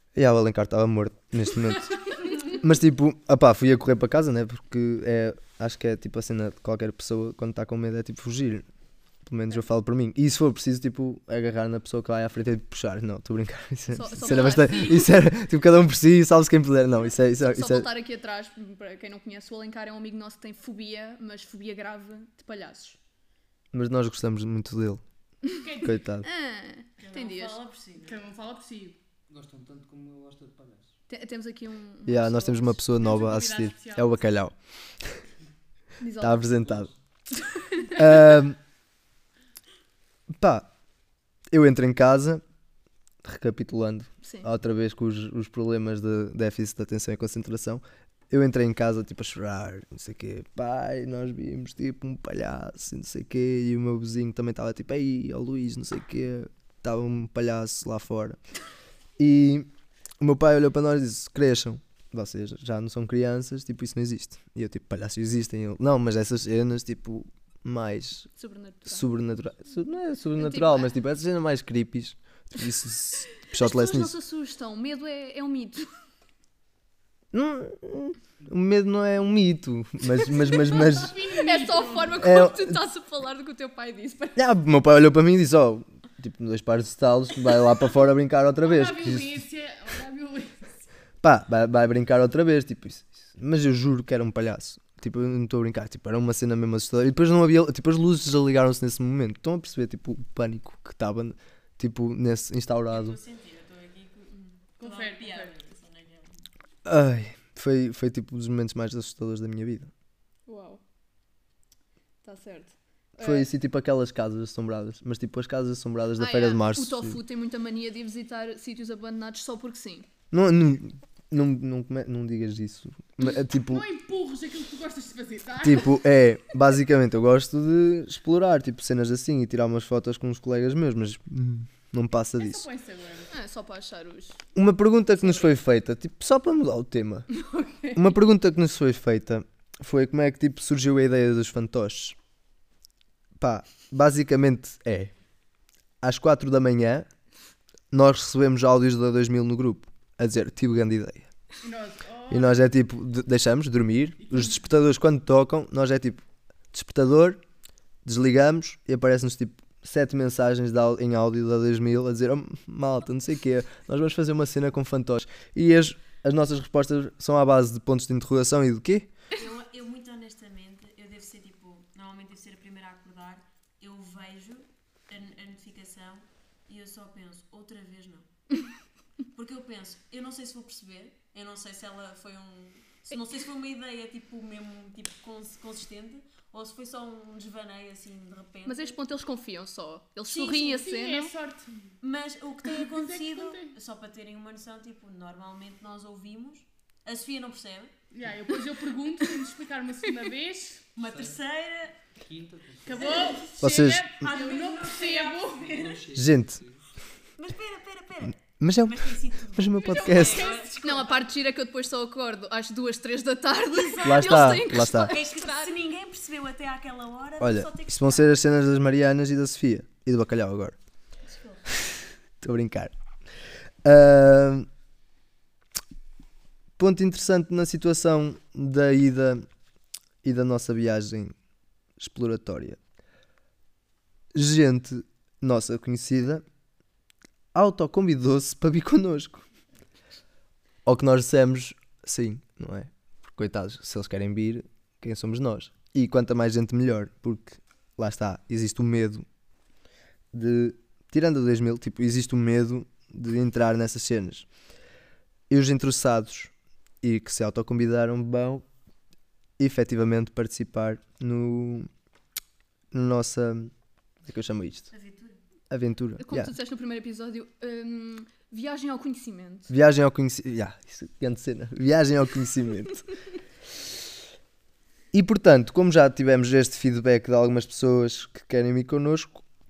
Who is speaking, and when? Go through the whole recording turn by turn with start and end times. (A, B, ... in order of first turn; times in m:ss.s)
0:00.1-0:08.6 A
0:09.2-0:17.9 A
0:13.9-0:15.2 B
0:17.4-0:23.0 B
0:23.7-0:25.0 A
0:25.6-0:26.0 C
0:25.8-0:26.2 A
0:26.2-0:27.6 B
0:27.0-0:28.2 D
0:28.0-0:29.0 C
0:29.3-0:30.9 E
0:31.1-0:32.8 B
0:32.1-0:35.2 A
0:32.9-0:34.2 C
0:36.0-0:36.5 B
0:36.2-0:36.9 A
0:36.5-0:36.9 E
0:37.4-0:37.8 B
0:37.9-0:38.6 A
0:40.4-0:40.7 A
0:41.5-0:42.4 A
0:43.2-0:58.4 A
0:59.2-0:59.7 A
1:00.2-1:08.3 A
1:08.4-1:09.1 B
1:08.8-1:14.1 A
1:10.4-1:10.9 B
1:13.5-1:15.9 B
1:17.3-1:21.2 A
1:20.4-1:24.4 B
1:20.8-1:22.2 C
1:22.2-1:22.8 A
1:24.4-1:29.4 A
1:28.6-1:30.7 C
1:31.2-1:43.2 A
1:42.9-1:46.5 D
1:44.8-1:45.5 C
1:46.8-1:49.9 A
1:50.5-1:50.8 B
1:52.2-1:53.5 B
1:53.2-1:57.2 A
1:56.2-2:00.1 B
2:00.3-2:03.8 A
2:03.5-2:05.9 C
2:05.6-2:12.7 A
2:12.3-2:13.3 C
2:13.3-2:14.4 B
2:14.5-2:17.3 A
2:15.2-2:15.6 B
2:17.3-2:18.2 B
2:17.9-2:22.2 A
2:23.4-2:25.1 A
2:26.0-2:27.1 A
2:27.9-2:31.3 A
2:31.6-2:32.6 C
2:32.3-2:37.4 A
2:34.2-2:34.5 C
2:38.0-2:49.1 A
2:49.3-2:58.3 D
2:59.3-3:09.0 D
3:08.6-3:11.3 B
3:10.3-3:10.8 D
3:10.6-3:11.7 C
3:12.0-3:17.9 D
3:12.8-3:13.7 C
3:18.1-3:20.9 C
3:21.0-3:22.0 D
3:21.0-3:21.3 E
3:22.2-3:23.0 E
3:22.8-3:25.8 C
3:23.0-3:23.5 D
3:23.6-3:24.1 A
3:24.2-3:26.0 D
3:25.7-3:26.8 E
3:26.1-3:26.6 A
3:27.4-3:31.2 D
3:28.4-3:30.5 A
3:29.8-3:30.7 C
3:30.8-3:35.7 B
3:33.8-3:38.4 D
3:34.0-3:35.2 A
3:37.4-3:40.7 A
3:41.2-3:41.6 D
3:42.4-3:42.9 A
3:43.8-3:44.7 A
3:46.8-3:49.4 A
3:50.2-3:51.3 A
3:52.0-3:52.8 A
3:54.3-3:56.4 A
3:57.5-3:59.4 A
4:00.8-4:09.2 A
4:10.3-4:14.5 A
4:15.5-4:18.6 A
4:19.6-4:21.9 A
4:22.9-4:23.7 A
4:24.2-4:24.9 A
4:24.9-4:25.4 D
4:25.7-4:26.5 A
4:26.2-4:29.7 B
4:29.7-4:33.0 A
4:35.1-4:39.4 A